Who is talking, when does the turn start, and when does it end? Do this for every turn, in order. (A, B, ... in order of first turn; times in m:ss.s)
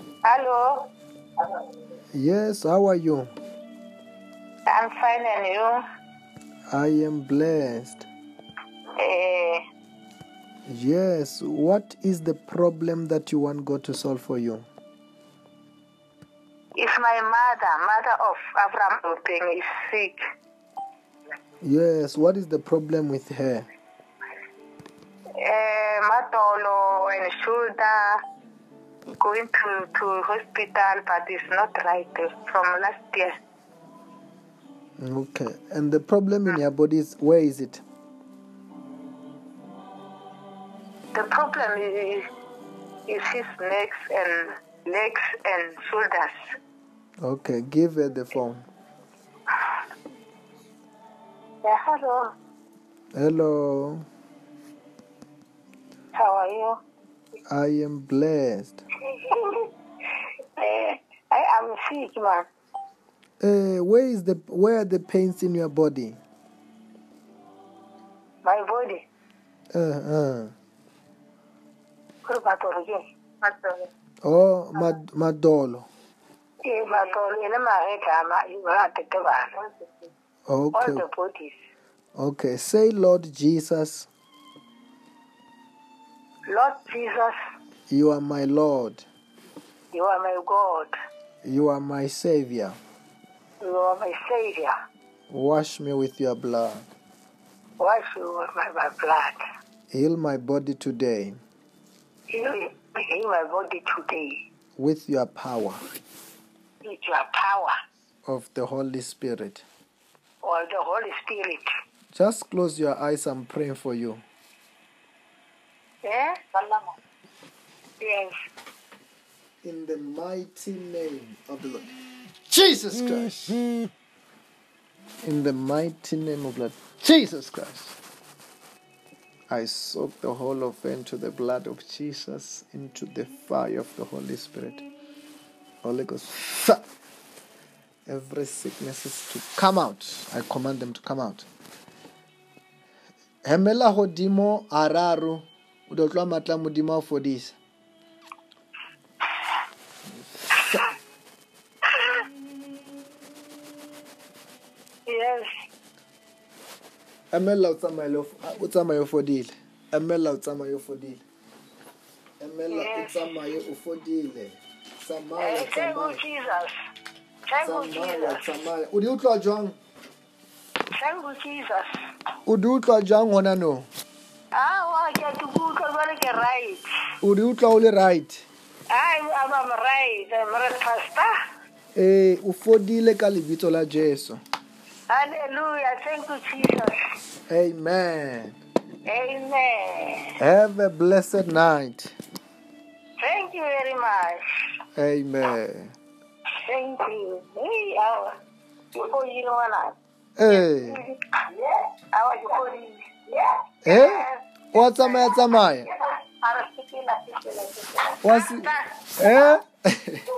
0:00.2-0:00.8 A
0:02.1-0:03.3 B
0:04.7-0:05.8 A
0:06.7-0:08.1 B
0:09.0-0:09.6 A
0:10.7-0:14.7 B
0:16.8-0:20.2 A
0:21.6-0:23.7 B
0:25.4-0:28.2 A
0:29.2-0:33.4 A
0:35.0-0:37.8 B
0:41.1-0:42.2 A
0:43.1-0:46.4 A
0:47.2-0:48.6 B
0:51.6-0:52.3 A
0:53.2-0:54.0 B
0:56.2-0:56.8 A
0:57.5-0:58.8 B
0:59.2-0:59.7 A
1:00.6-1:02.5 A
1:03.4-1:06.2 B
1:08.4-1:09.0 A
1:09.7-1:10.5 B
1:12.2-1:13.9 A
1:14.2-1:15.9 B
1:16.6-1:19.5 A
1:20.5-1:21.0 B
1:20.7-1:21.6 A
1:22.2-1:24.1 B
1:26.5-1:27.4 A
1:27.9-1:29.1 B
1:29.9-1:30.9 A
1:31.4-1:32.8 B
1:33.6-1:34.7 A
1:35.3-1:36.9 B
1:37.8-1:39.4 A
1:39.9-1:41.4 B
1:42.3-1:44.4 A
1:44.8-1:45.8 B
1:46.8-1:47.7 A
1:48.3-1:49.6 B
1:50.4-1:51.6 A
1:52.1-1:54.2 B
1:56.0-1:56.9 A
1:58.0-1:58.4 A
1:59.6-2:01.9 B
2:02.5-2:03.5 B
2:05.2-2:08.0 B
2:09.5-2:14.9 B
2:15.8-2:16.8 B
2:18.1-2:21.5 B
2:23.5-2:27.6 B
2:30.2-2:30.9 B
2:32.0-2:32.2 A
2:35.1-2:35.5 A
2:37.3-2:41.2 B
2:42.4-2:46.2 B
2:42.7-2:43.2 A
2:45.4-2:46.7 A
2:47.5-2:48.4 A
2:47.6-2:49.8 B
2:50.9-2:51.9 A
2:52.5-2:53.9 B
2:54.5-2:56.9 A
2:57.2-2:58.4 B
2:58.9-3:01.3 A
3:02.0-3:04.4 B
3:05.1-3:07.0 A
3:07.5-3:08.6 B
3:09.1-3:10.3 A
3:10.4-3:12.1 B
3:13.2-3:14.4 A
3:15.0-3:15.9 B
3:16.6-3:18.3 A
3:18.9-3:20.0 A
3:20.4-3:21.0 B
3:20.5-3:29.0 A
3:23.8-3:25.9 B
3:28.2-3:30.2 B